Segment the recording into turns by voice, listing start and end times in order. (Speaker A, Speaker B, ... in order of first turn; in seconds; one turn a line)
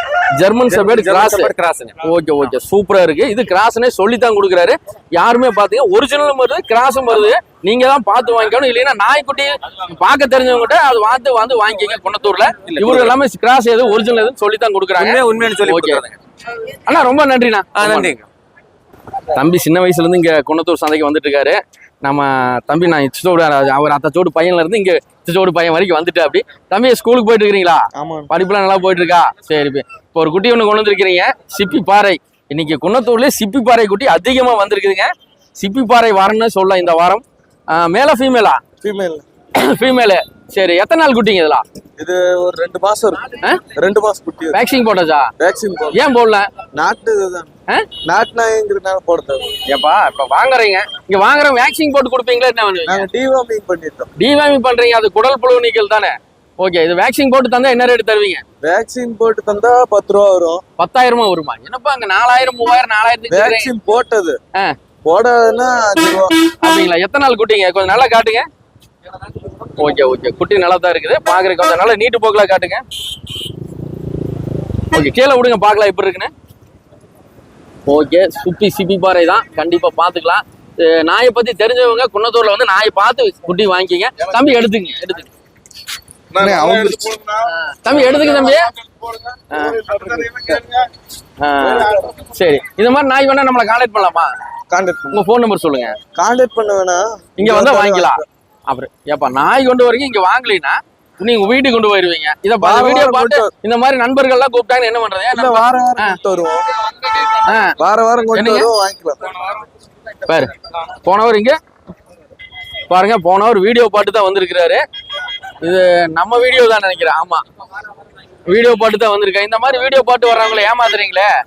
Speaker A: 0.3-1.5
Speaker B: 0.7-2.0
Speaker A: 2.0-16.0
Speaker B: 12.7-13.2
Speaker B: 14.9-16.1
Speaker A: 16.9-18.1
Speaker B: 17.8-18.2
Speaker A: 19.3-38.6
Speaker C: 28.0-28.3
Speaker C: 38.8-39.2
Speaker A: 39.5-41.6
Speaker C: 42.0-44.6
Speaker A: 44.5-45.3
Speaker C: 45.4-46.0
Speaker A: 45.9-46.5
Speaker C: 46.7-47.5
Speaker C: 48.0-49.5
Speaker A: 49.6-53.0
Speaker C: 52.9-54.1
Speaker A: 54.2-58.4
Speaker C: 58.6-60.6
Speaker A: 60.8-63.7
Speaker C: 63.3-64.4
Speaker C: 65.0-66.5
Speaker A: 66.6-68.5
Speaker A: 69.8-72.8
Speaker A: 74.9-76.3
Speaker A: 77.8-85.3
Speaker C: 86.3-87.5
Speaker A: 86.4-87.0
Speaker A: 87.5-88.7
Speaker C: 88.1-90.9
Speaker A: 89.5-89.8
Speaker A: 91.4-94.3
Speaker C: 91.6-92.0
Speaker C: 94.7-95.2
Speaker A: 95.1-95.9
Speaker C: 96.2-98.2
Speaker A: 97.4-106.2
Speaker C: 102.6-103.5
Speaker C: 105.3-106.8
Speaker A: 107.2-107.7
Speaker C: 107.8-109.5
Speaker A: 108.3-108.7
Speaker A: 110.2-111.6
Speaker A: 112.9-114.8
Speaker A: 115.6-117.4
Speaker A: 118.5-121.3